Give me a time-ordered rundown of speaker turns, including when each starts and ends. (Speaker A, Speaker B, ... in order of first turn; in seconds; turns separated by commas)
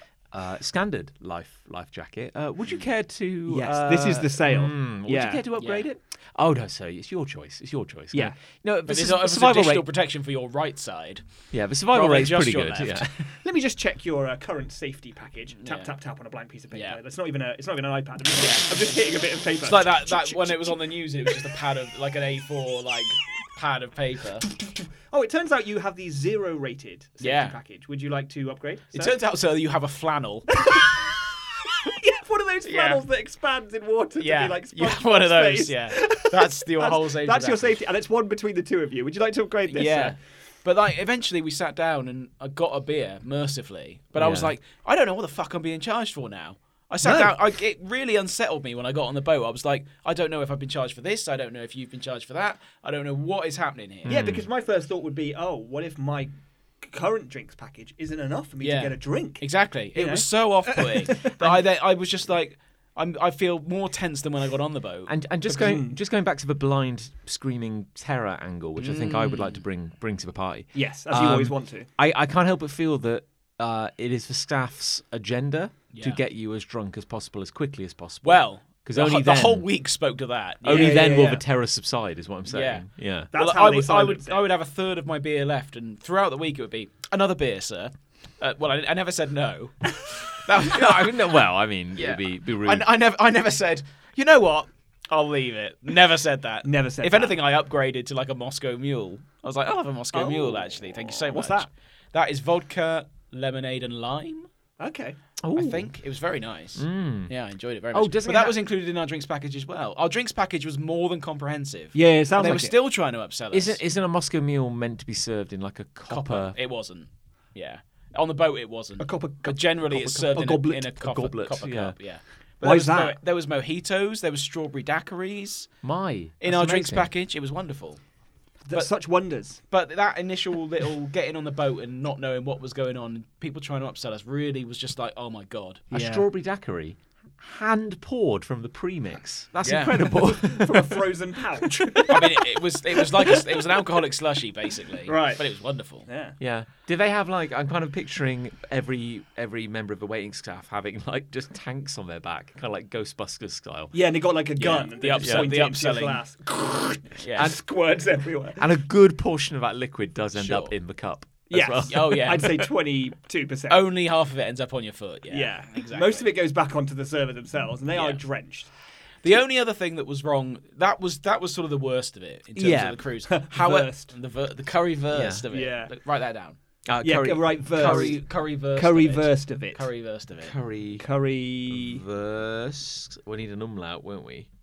Speaker A: 0.3-9.9, Speaker B: 3.5-5.4, Speaker C: 5.6-5.9, Speaker C: 8.9-11.2, Speaker A: 11.5-13.2, Speaker C: 11.9-13.1, Speaker B: 13.3-21.5, Speaker C: 15.6-15.9, Speaker C: 16.7-17.0, Speaker C: 19.6-24.5, Speaker B: 24.6-29.1, Speaker C: 27.2-27.6, Speaker C: 28.9-30.5, Speaker B: 30.5-40.2, Speaker C: 32.7-33.0, Speaker C: 34.2-37.8, Speaker C: 39.7-54.2, Speaker A: 44.2-44.5, Speaker B: 47.0-47.3, Speaker A: 54.1-54.5, Speaker B: 54.1-61.6, Speaker C: 58.6-65.1, Speaker A: 65.1-79.7, Speaker B: 65.5-66.0, Speaker C: 68.8-69.6, Speaker B: 70.7-71.9, Speaker C: 75.9-76.2, Speaker C: 78.2-81.1, Speaker A: 80.6-83.3, Speaker B: 80.7-81.4, Speaker C: 82.5-91.4, Speaker B: 83.3-84.4, Speaker A: 90.6-92.9, Speaker C: 92.0-104.5, Speaker B: 96.6-97.4, Speaker B: 100.1-101.7, Speaker B: 104.8-105.2, Speaker A: 105.4-105.9, Speaker C: 105.5-113.8, Speaker A: 106.8-107.3, Speaker A: 107.9-108.6, Speaker B: 111.9-112.7, Speaker A: 113.5-116.6, Speaker C: 116.1-125.7, Speaker B: 119.0-119.7, Speaker A: 119.9-122.0, Speaker B: 122.6-123.2, Speaker A: 125.8-127.1, Speaker C: 126.4-128.0, Speaker B: 128.7-129.6, Speaker C: 129.6-135.9, Speaker A: 135.9-141.1, Speaker B: 135.9-136.2, Speaker C: 139.6-140.1, Speaker B: 140.0-142.4, Speaker A: 141.6-142.2, Speaker C: 142.1-146.1, Speaker B: 145.1-145.4, Speaker B: 146.1-146.4, Speaker A: 146.4-153.9, Speaker B: 153.9-158.7, Speaker C: 154.6-156.2, Speaker A: 155.2-155.5, Speaker C: 157.2-157.5, Speaker A: 158.6-162.7, Speaker C: 160.4-160.7, Speaker B: 161.5-163.8, Speaker C: 161.9-162.6, Speaker C: 163.7-166.3, Speaker B: 165.3-168.7, Speaker C: 167.9-168.2, Speaker C: 169.2-176.6, Speaker A: 172.6-173.0, Speaker B: 173.3-174.1, Speaker A: 175.1-175.4, Speaker B: 175.5-175.9, Speaker A: 176.9-178.2, Speaker B: 177.0-179.9, Speaker C: 177.7-180.6, Speaker A: 180.4-181.1, Speaker B: 181.0-182.0, Speaker A: 181.7-184.5